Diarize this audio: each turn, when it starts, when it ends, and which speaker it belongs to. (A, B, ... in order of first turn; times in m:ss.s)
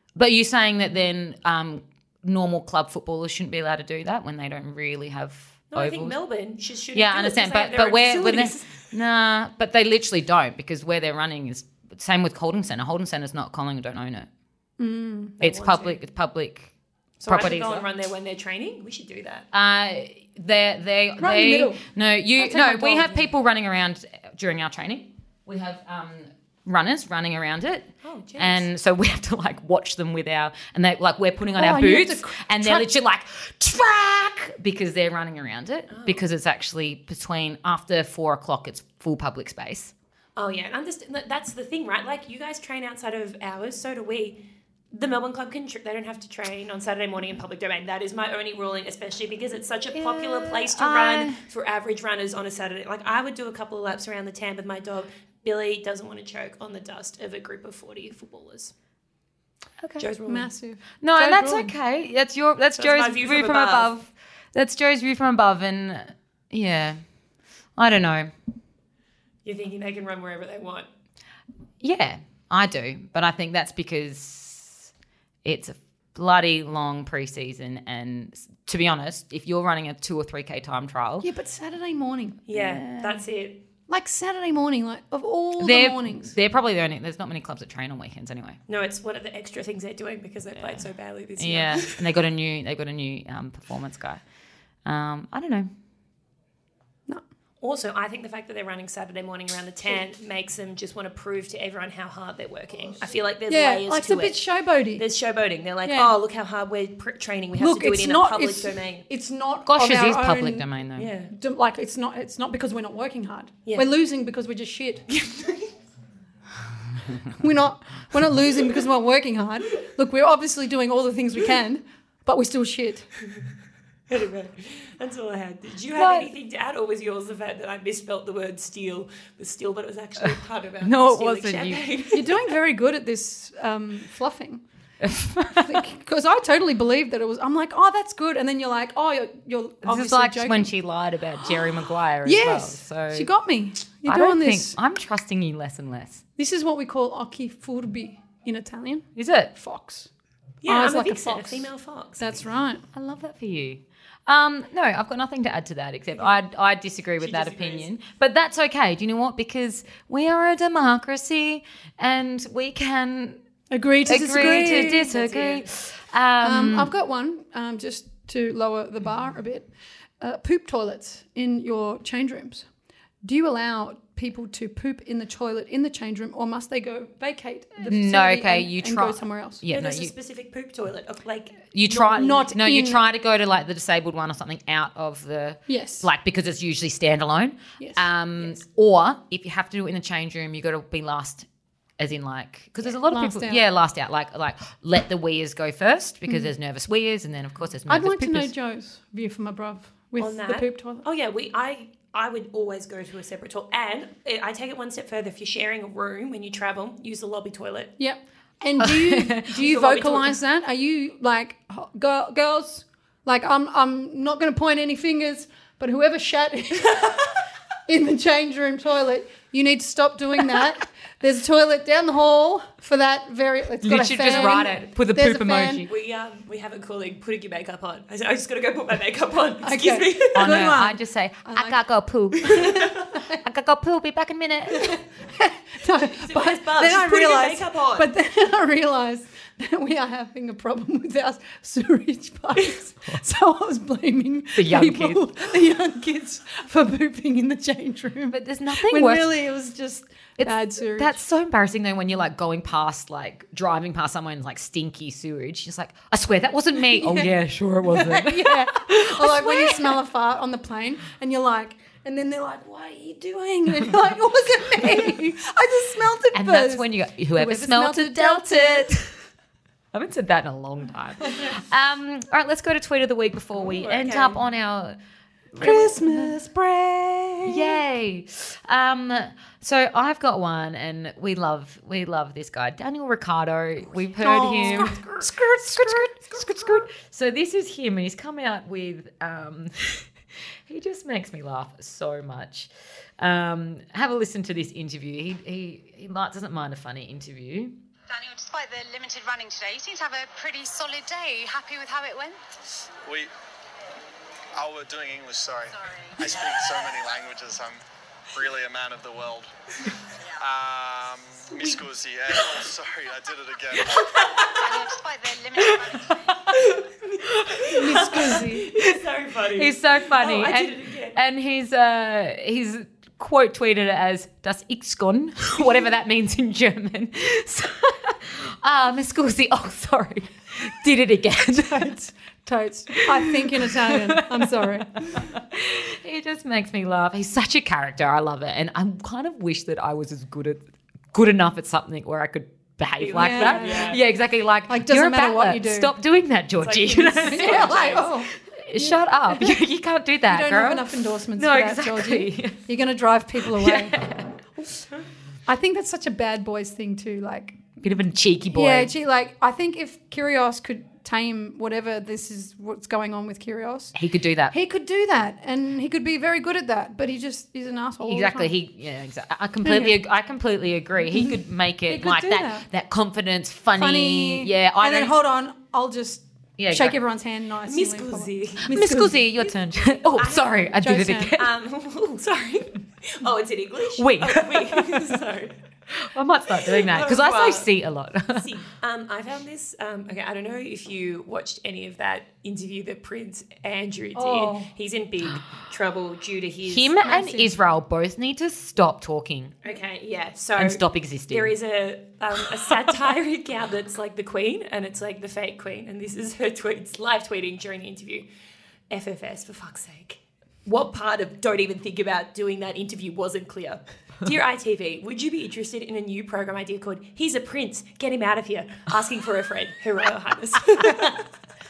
0:00.1-0:06.2 A
0:05.7-0:08.8 B
0:06.9-0:14.3 A
0:14.8-0:15.4 C
0:15.4-0:16.0 B
0:15.4-0:16.7 A
0:17.2-0:19.5 B
0:17.3-0:17.8 A
0:19.5-0:39.9 A
0:21.2-0:21.8 C
0:22.4-0:23.2 B
0:22.7-0:23.0 C
0:28.0-0:28.7 B
0:31.5-0:32.9 C
0:35.9-0:36.2 B
0:40.4-0:58.7 B
0:49.9-0:51.4 A
0:59.8-1:00.1 A
1:00.0-1:00.5 B
1:00.3-1:01.7 C
1:01.0-1:07.0 A
1:02.8-1:03.9 B
1:07.8-1:08.3 A
1:09.4-1:10.9 B
1:11.8-1:14.9 A
1:15.4-1:21.3 A
1:21.2-1:22.4 C
1:22.5-1:23.6 B
1:22.5-1:23.2 A
1:23.9-1:26.3 C
1:25.6-1:28.6 A
1:28.7-1:32.2 B
1:30.6-1:34.2 A
1:34.8-1:35.7 A
1:37.6-1:49.0 B
1:43.5-1:45.0 C
1:45.8-1:46.1 C
1:47.6-1:50.7 C
1:49.7-1:51.1 A
1:51.0-1:51.3 B
1:51.3-1:55.0 C
1:55.1-1:55.7 B
1:57.3-2:03.1 C
2:04.1-2:12.4 B
2:05.9-2:06.3 A
2:10.8-2:11.8 A
2:12.1-2:14.6 C
2:15.0-2:15.8 A
2:15.5-2:20.7 C
2:19.8-2:23.3 A
2:22.2-2:24.8 C
2:24.0-2:26.2 A
2:26.4-2:30.1 C
2:29.2-2:29.5 A
2:30.6-2:32.3 B
2:30.6-2:32.8 C
2:32.9-2:43.4 A
2:37.2-2:37.9 B
2:43.7-2:45.1 C
2:44.0-2:46.9 A
2:44.1-2:45.7 B
2:46.4-2:52.7 C
2:53.2-2:59.6 C
2:57.8-3:00.1 A
2:59.7-3:02.4 B
3:01.7-3:11.5 A
3:02.0-3:03.0 C
3:05.7-3:06.1 C
3:07.8-3:08.0 C
3:12.0-3:18.5 A
3:13.1-3:13.6 C
3:17.9-3:21.0 C
3:20.2-3:27.9 B
3:28.0-3:37.2 C
3:28.8-3:29.5 A
3:29.6-3:30.4 B
3:37.9-3:45.8 C
3:43.8-3:45.9 A
3:44.3-3:44.6 B
3:45.9-3:50.7 B
3:49.6-3:51.8 C
3:50.3-3:55.0 A
3:52.4-3:53.4 C
3:54.7-4:11.2 C
3:56.1-3:58.1 B
4:04.5-4:05.2 A
4:08.3-4:09.3 A
4:10.4-4:20.0 A
4:16.9-4:17.3 C
4:17.8-4:29.0 C
4:26.3-4:29.2 A
4:29.9-4:35.0 A
4:33.6-4:34.4 B
4:35.5-4:36.3 A
4:35.6-4:37.8 C
4:37.5-4:45.0 A
4:44.0-4:45.1 B
4:44.2-4:46.8 C
4:45.6-4:50.1 A
4:50.6-4:57.8 A
4:58.1-5:02.4 D
5:04.5-5:07.8 E
5:05.8-5:06.4 D
5:08.3-5:09.5 E
5:10.4-5:14.2 E
5:13.9-5:14.9 B
5:14.5-5:16.3 D
5:15.7-5:21.2 B
5:17.4-5:18.9 A
5:17.7-5:18.7 C
5:19.5-5:31.9 A
5:31.6-5:35.0 C
5:32.9-5:52.6 A
5:43.0-5:44.0 B
5:43.2-5:44.0 C
5:44.7-5:45.9 C
5:46.6-5:48.1 B
5:47.2-5:49.6 C
5:50.3-5:54.0 C
5:53.4-5:54.4 A
5:55.4-5:57.6 C
5:57.8-5:58.9 A
5:58.5-6:04.0 C
6:03.9-6:04.5 A
6:04.5-6:08.5 C
6:08.0-6:15.2 A
6:09.6-6:10.0 C
6:11.9-6:12.6 C
6:13.8-6:19.2 C
6:16.6-6:17.0 A
6:17.6-6:20.8 B
6:18.7-6:21.5 A
6:20.8-6:21.3 C
6:21.3-6:25.6 B
6:23.9-6:25.0 A
6:25.9-6:28.5 A
6:26.6-6:27.7 B
6:28.3-6:37.0 B
6:34.1-6:34.7 C
6:36.6-6:39.6 A
6:37.0-6:37.5 C
6:39.6-6:48.2 B
6:40.6-6:41.5 A
6:48.9-7:01.3 B